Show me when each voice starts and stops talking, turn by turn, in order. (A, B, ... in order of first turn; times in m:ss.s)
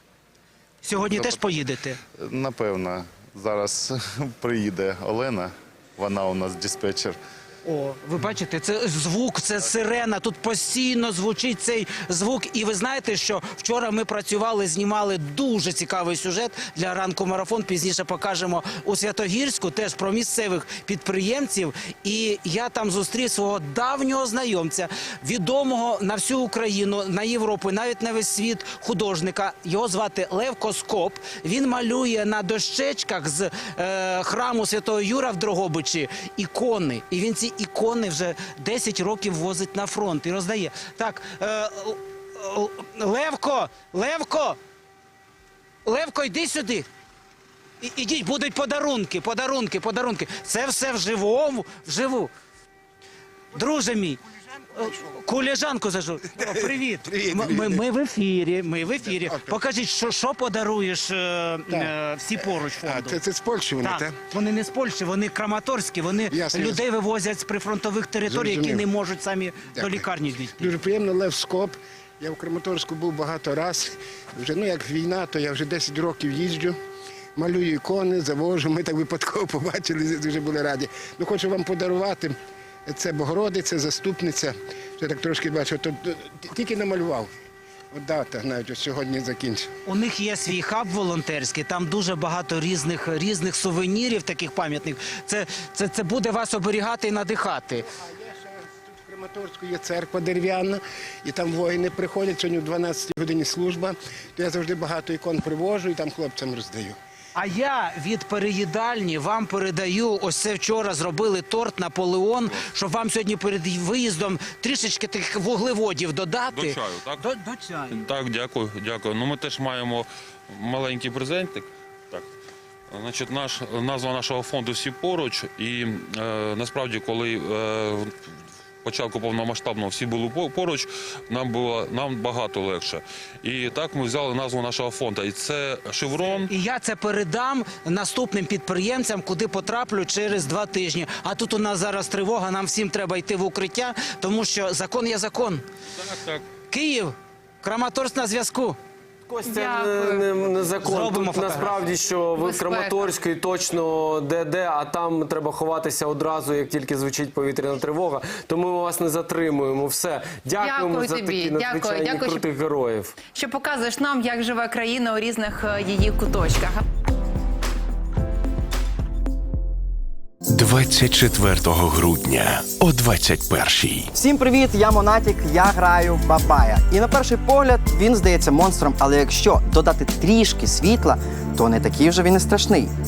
0:00.8-0:02.0 A
0:01.0-0:01.5 B
0:02.2-0:07.2 B
0:07.6-0:44.6 A
0:45.8-0:46.9 A
0:47.8-0:52.3 A
0:53.5-0:54.2 A
0:54.7-1:03.2 A
0:57.1-0:57.8 C
0:59.1-0:59.6 C
1:01.7-1:01.9 C
1:02.8-1:04.2 C
1:03.8-1:10.7 A
1:06.3-1:06.8 C
1:08.3-1:08.9 C
1:09.7-1:10.0 C
1:10.6-1:16.8 C
1:17.3-1:22.3 C
1:22.8-1:27.3 C
1:27.9-1:29.7 C
1:29.8-1:37.9 A
1:37.9-1:47.0 C
1:47.3-1:58.0 A
1:56.5-1:57.2 D
1:57.9-2:02.3 D
2:02.9-2:08.1 D
2:08.8-2:16.5 D
2:16.2-2:25.6 A
2:25.9-2:26.4 D
2:26.7-2:28.8 A
2:29.3-2:43.2 E
2:29.5-2:30.2 F
2:30.8-2:32.0 A
2:32.4-2:33.0 F
2:40.6-2:42.4 F
2:43.2-2:46.8 F
2:50.5-2:54.1 G
2:54.1-3:02.9 H